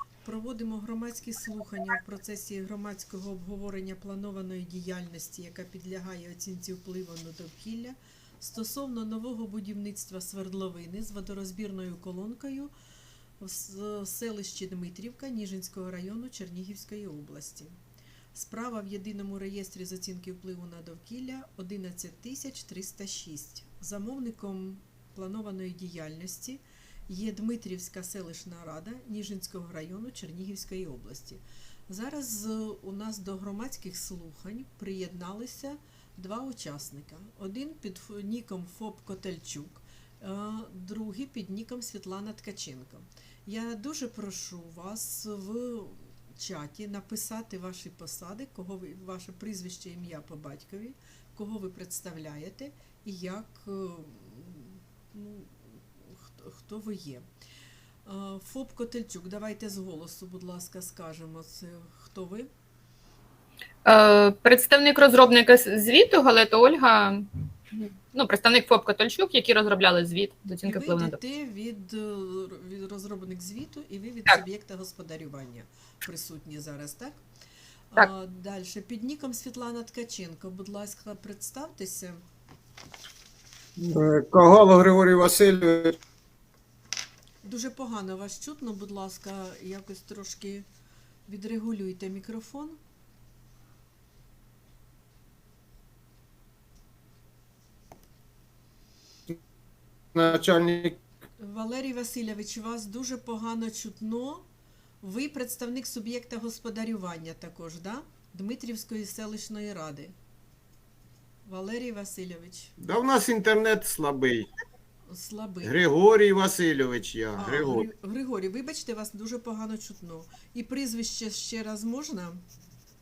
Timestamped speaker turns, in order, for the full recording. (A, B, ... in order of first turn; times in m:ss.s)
0:00.2-0:12.7 A
0:13.4-0:17.8 A
0:18.3-0:57.3 A
0:58.0-1:02.5 A
1:03.8-1:11.2 B
1:10.6-1:17.2 A
1:17.9-1:22.2 A
1:23.8-1:26.0 C
1:27.4-1:30.6 A
1:31.3-1:32.8 A
1:40.1-1:41.0 C
1:41.4-1:44.4 A
1:45.0-1:50.1 A
1:51.4-1:52.7 A
1:52.8-1:54.5 C
1:55.1-1:55.7 A
1:55.6-1:57.8 C
1:57.4-2:02.4 A